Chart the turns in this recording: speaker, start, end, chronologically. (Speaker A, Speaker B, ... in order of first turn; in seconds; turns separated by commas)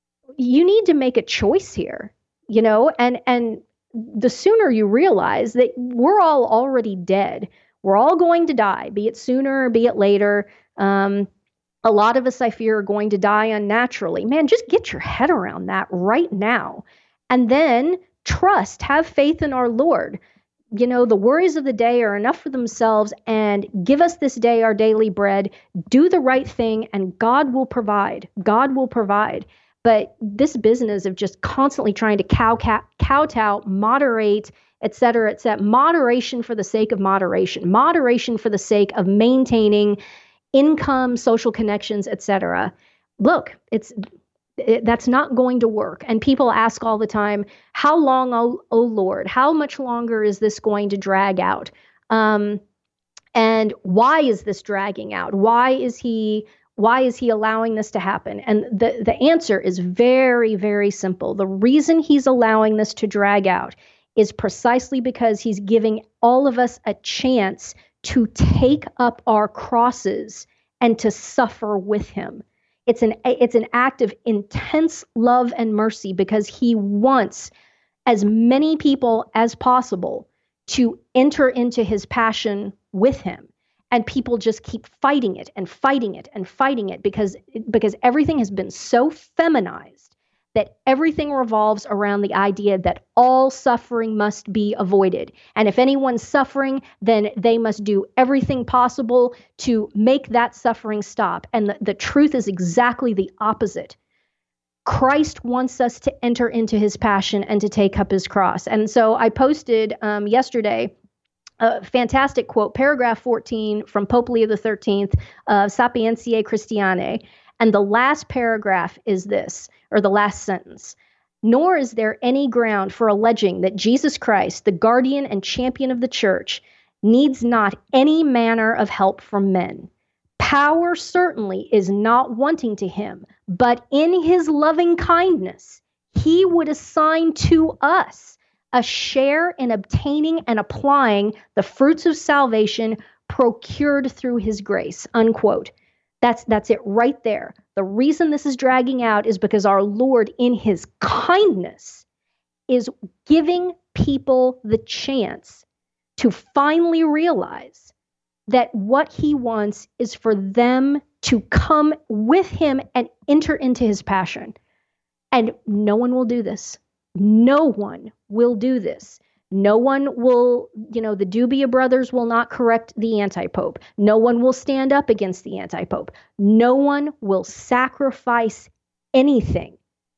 Speaker A: 0.4-11.3, Speaker A: 11.8-20.2, Speaker A: 20.7-40.0, Speaker A: 40.5-44.0, Speaker A: 44.6-52.6, Speaker A: 53.3-77.5, Speaker A: 78.1-104.0, Speaker A: 104.8-110.9, Speaker A: 111.6-152.0, Speaker A: 152.7-155.6, Speaker A: 156.2-157.9, Speaker A: 158.5-164.5, Speaker A: 165.3-179.8